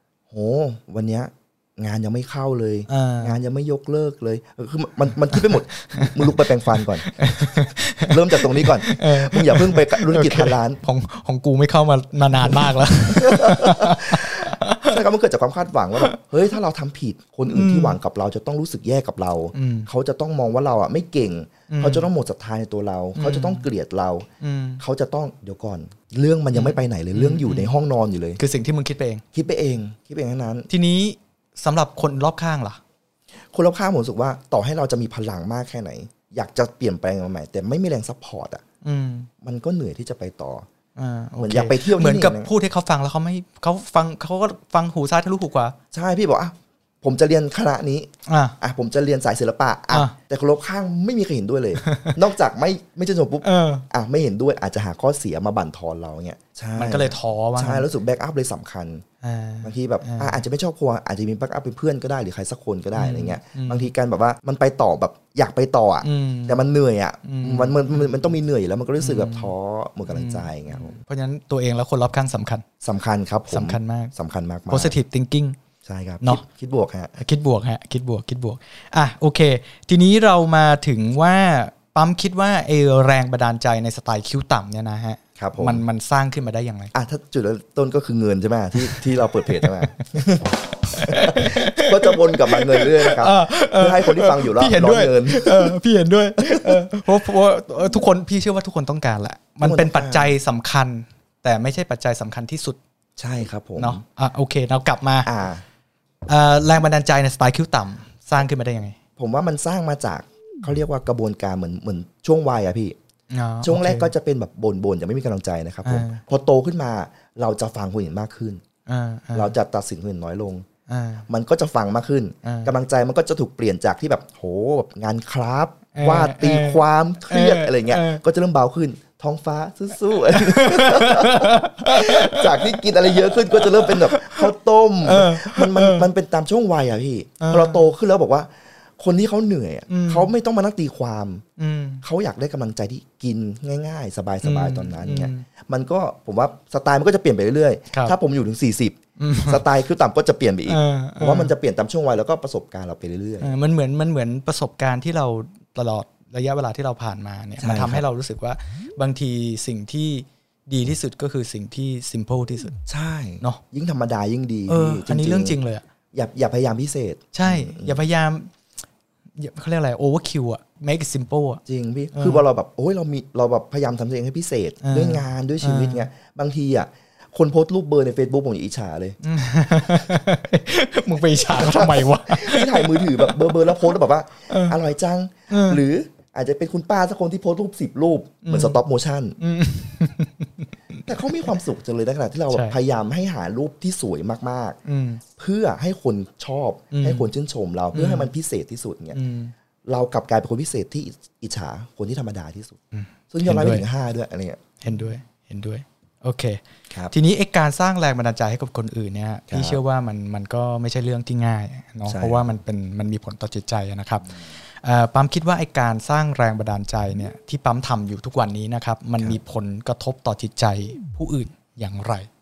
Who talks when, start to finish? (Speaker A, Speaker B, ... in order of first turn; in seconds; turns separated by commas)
Speaker A: 0.3-10.8, Speaker B: 2.9-3.4, Speaker B: 5.3-15.0, Speaker A: 12.4-24.3, Speaker B: 17.5-18.0, Speaker B: 19.5-19.9, Speaker B: 21.7-22.1, Speaker B: 23.2-23.7, Speaker B: 24.4-24.8, Speaker A: 24.8-28.4, Speaker B: 26.5-27.7, Speaker B: 28.4-29.2, Speaker A: 29.3-30.7, Speaker B: 30.7-32.8, Speaker A: 33.5-38.6, Speaker B: 38.8-39.3, Speaker A: 39.4-40.6, Speaker B: 41.0-45.8, Speaker A: 41.4-42.5, Speaker A: 45.9-59.0, Speaker B: 48.3-48.5, Speaker B: 49.9-50.2, Speaker B: 51.8-52.2, Speaker B: 53.4-53.8, Speaker B: 56.8-57.9, Speaker B: 59.2-60.4, Speaker A: 59.6-71.0, Speaker B: 63.0-63.9, Speaker B: 66.0-66.7, Speaker B: 67.2-68.3, Speaker B: 69.0-69.5, Speaker B: 70.1-72.6, Speaker A: 72.8-75.0, Speaker B: 73.5-74.1, Speaker B: 74.7-75.6, Speaker A: 75.9-77.1, Speaker B: 77.2-86.9, Speaker A: 85.4-85.8, Speaker A: 86.9-95.8, Speaker B: 88.8-89.1, Speaker B: 90.9-102.8, Speaker A: 96.4-96.8, Speaker A: 99.6-100.3, Speaker A: 103.2-104.0, Speaker B: 103.8-105.3, Speaker A: 105.2-105.6, Speaker B: 106.3-109.0, Speaker A: 109.2-113.0, Speaker B: 113.3-114.1, Speaker A: 113.6-118.6, Speaker B: 115.8-116.2, Speaker B: 118.9-119.5, Speaker A: 119.3-120.7, Speaker B: 120.9-121.2, Speaker A: 121.3-141.4, Speaker B: 122.4-122.7, Speaker B: 125.9-128.2, Speaker B: 130.3-134.5, Speaker B: 135.0-136.1, Speaker B: 137.4-137.9, Speaker B: 139.9-140.3, Speaker B: 141.6-142.0, Speaker A: 142.0-149.0, Speaker B: 144.4-145.4, Speaker B: 149.2-149.6, Speaker A: 149.5-153.5, Speaker B: 150.7-151.5, Speaker B: 153.4-162.8, Speaker A: 157.6-158.1, Speaker A: 162.9-165.6, Speaker B: 164.7-165.8, Speaker A: 166.1-168.0, Speaker B: 167.3-168.5, Speaker B: 169.4-171.6, Speaker A: 171.7-179.2, Speaker B: 172.1-172.4, Speaker B: 174.8-176.1, Speaker B: 179.2-183.9, Speaker A: 181.4-189.4, Speaker B: 184.5-184.8, Speaker B: 185.5-185.8, Speaker B: 188.4-188.8, Speaker B: 189.4-191.0, Speaker A: 191.1-194.8, Speaker B: 192.5-192.8, Speaker B: 194.8-195.2, Speaker A: 195.4-199.2, Speaker B: 196.9-197.3, Speaker B: 197.9-198.3, Speaker B: 199.1-199.5, Speaker A: 199.9-202.8, Speaker B: 202.9-203.9, Speaker A: 203.3-204.6, Speaker B: 204.8-222.3, Speaker A: 209.5-209.8, Speaker A: 212.1-212.4